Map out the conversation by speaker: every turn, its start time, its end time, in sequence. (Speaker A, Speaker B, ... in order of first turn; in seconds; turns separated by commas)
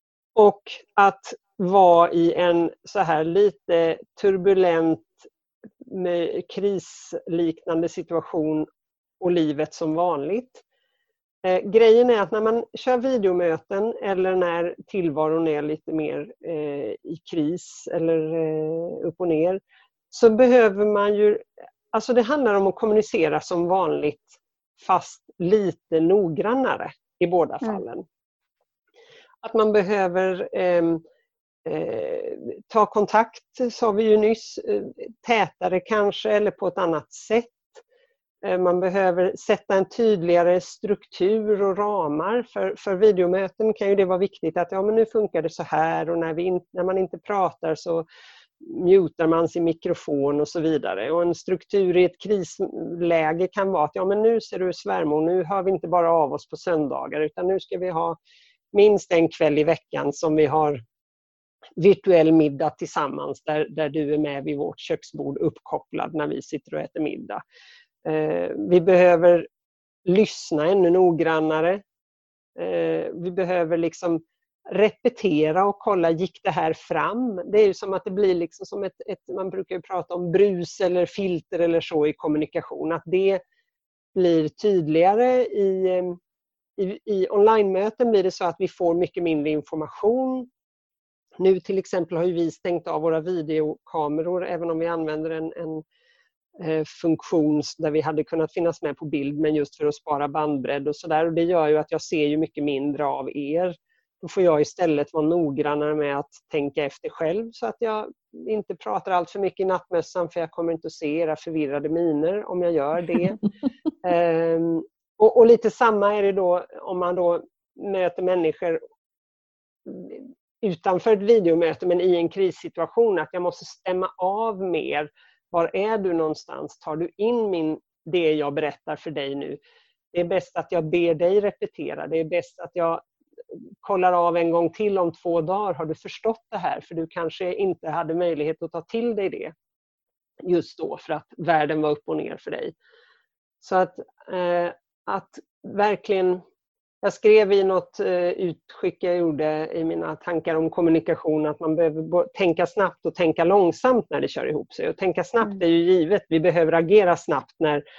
Speaker A: 0.4-5.2, Speaker A: 5.9-8.7, Speaker A: 9.2-10.6, Speaker A: 11.4-19.6, Speaker A: 20.1-28.0, Speaker A: 29.4-31.0, Speaker A: 31.6-37.7, Speaker A: 38.4-48.0, Speaker A: 48.6-58.2, Speaker A: 58.7-60.8, Speaker A: 61.8-67.4, Speaker A: 68.0-69.5, Speaker A: 70.0-71.8, Speaker A: 72.5-83.4, Speaker A: 84.1-86.2, Speaker A: 86.8-90.5, Speaker A: 91.4-95.8, Speaker A: 96.6-113.5, Speaker A: 114.0-118.8, Speaker A: 119.8-129.6, Speaker A: 130.1-133.0, Speaker A: 133.8-139.5, Speaker A: 140.4-142.7, Speaker A: 143.6-146.4, Speaker A: 147.0-157.8